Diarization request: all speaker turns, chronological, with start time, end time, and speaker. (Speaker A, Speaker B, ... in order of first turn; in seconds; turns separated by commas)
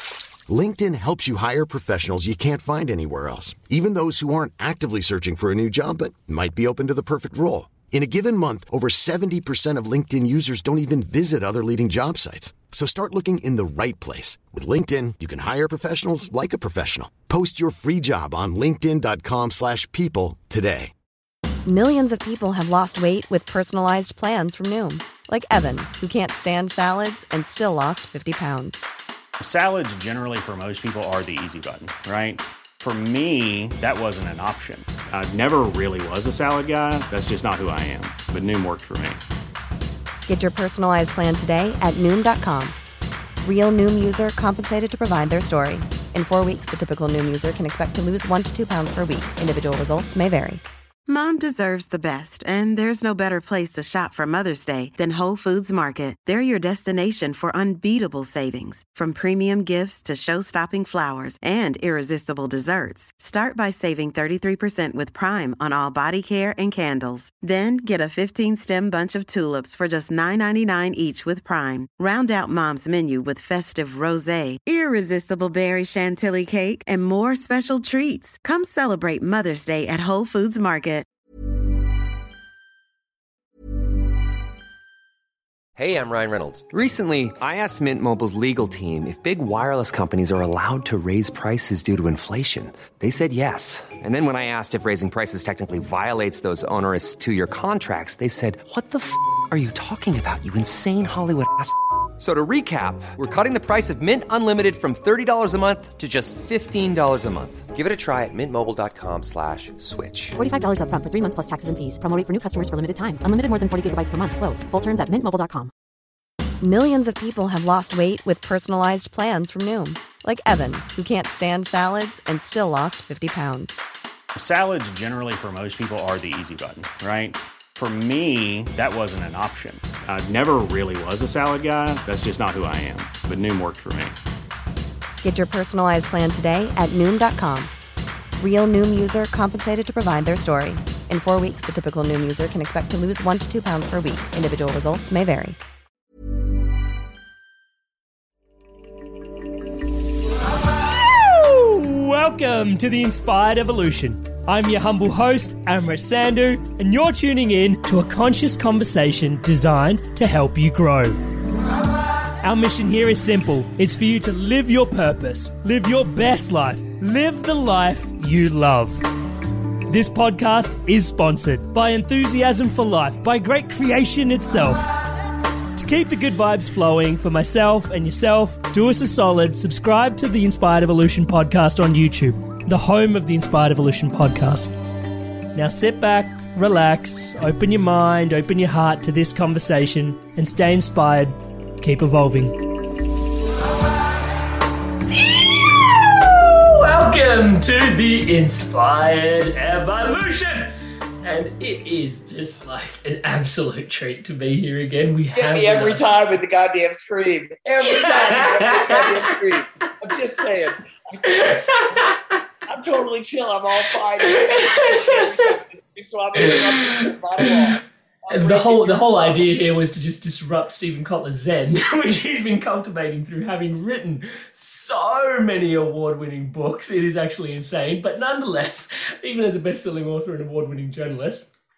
Speaker A: 0.5-20.9, Speaker B: 21.7-28.9, Speaker C: 29.4-39.2, Speaker B: 40.3-42.8, Speaker B: 43.4-50.6, Speaker D: 51.1-81.0, Speaker E: 85.8-110.4, Speaker F: 110.4-115.7, Speaker B: 116.6-123.8, Speaker C: 124.4-134.2, Speaker B: 135.2-137.7, Speaker B: 138.4-145.6, Speaker G: 150.8-161.2, Speaker G: 162.4-169.1, Speaker G: 169.9-174.8, Speaker G: 175.8-184.7, Speaker G: 185.5-192.6, Speaker G: 195.1-206.0, Speaker H: 205.4-219.5, Speaker G: 207.8-209.3, Speaker G: 211.3-212.2, Speaker G: 214.5-215.2, Speaker G: 216.4-217.8, Speaker G: 218.3-231.4